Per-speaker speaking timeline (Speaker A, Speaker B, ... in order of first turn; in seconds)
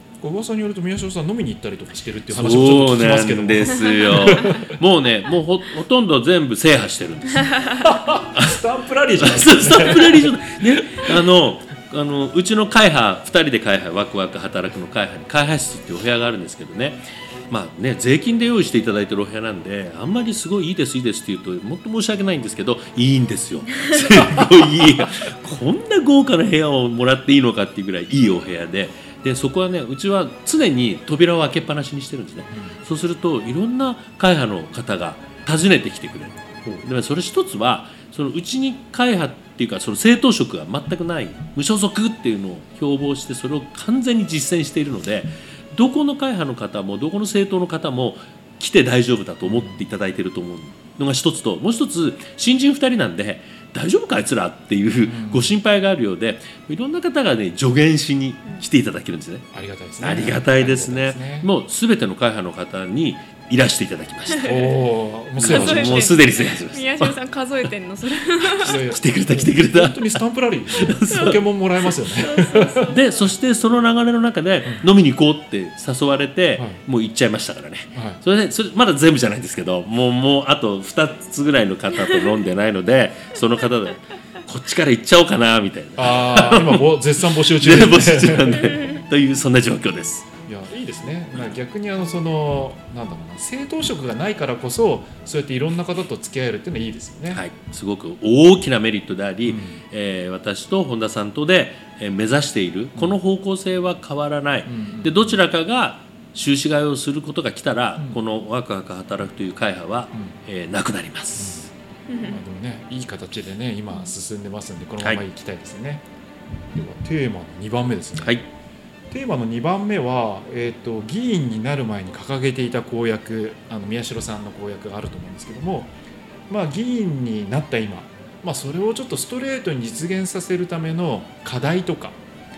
Speaker A: 0.2-4.7, 7.8-11.1, 32.5-32.8, 49.4-49.8, 55.0-55.5, 59.5-61.5, 64.4-66.2, 68.6-72.9, 76.6-76.8, 77.9-78.2, 86.0-88.6, 90.4-97.4, 99.4-99.8, 104.7-105.4, 110.1-110.4, 111.3-116.0, 116.7-118.4, 119.1-125.9, 126.5-132.2
Speaker B: 2.3-7.6, 8.3-8.6, 9.2-59.4, 60.0-64.5, 65.4-67.1, 68.6-70.2, 70.8-71.4, 72.9-90.3, 97.3-111.7
Speaker C: 64.3-64.8, 65.4-68.8, 71.1-71.4, 72.0-73.1, 112.1-112.4